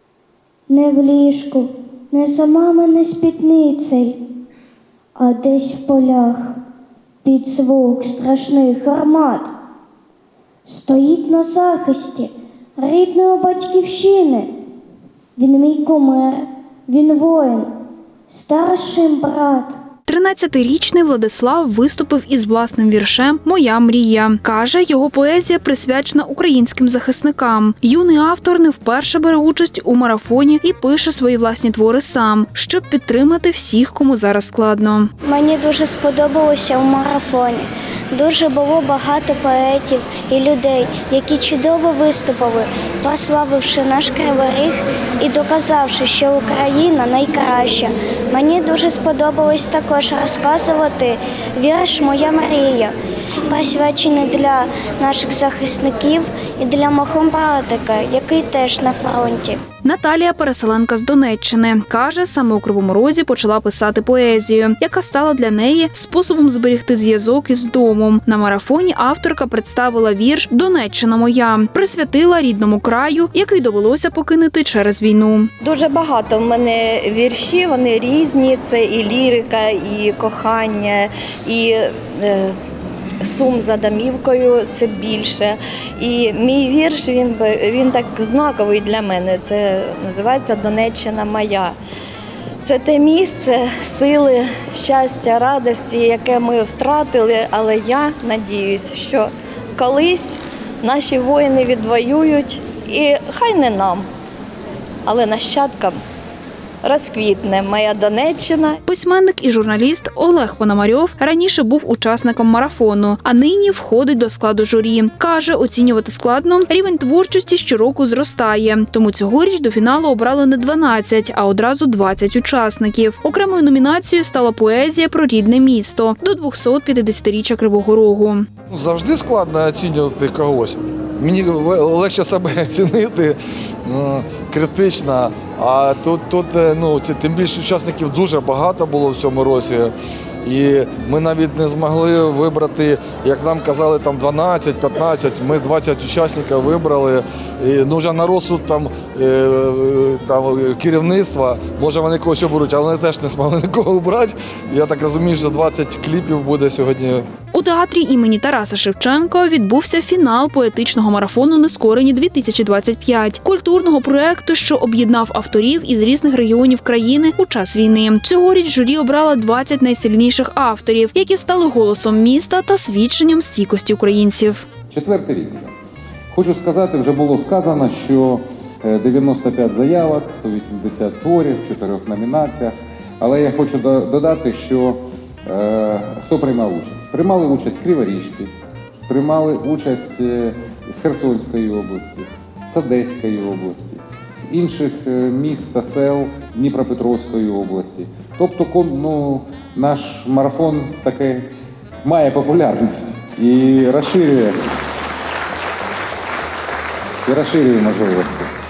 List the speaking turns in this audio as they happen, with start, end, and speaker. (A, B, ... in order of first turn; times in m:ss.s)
0:00.7-0:04.2 A
0:05.2-0:06.6 A
0:07.2-0:09.5 A
0:10.7-0:14.5 A
0:15.4-0:17.7 A
0:18.3-0:19.8 A
0:20.1-0:35.1 B
0:35.2-0:52.9 A
0:53.5-0:59.6 A
0:59.8-1:15.5 B
1:15.6-1:22.6 C
1:23.2-1:31.8 C
1:32.6-1:44.1 C
1:45.1-1:46.0 C
1:46.8-1:48.8 C
1:48.9-2:08.5 B
2:08.7-2:19.9 D
2:20.4-2:37.2 D
2:37.5-2:54.7 B
2:54.9-2:55.7 E
2:56.3-3:08.5 E
3:09.1-3:21.5 E
3:22.0-3:24.6 E
3:27.3-3:28.5 E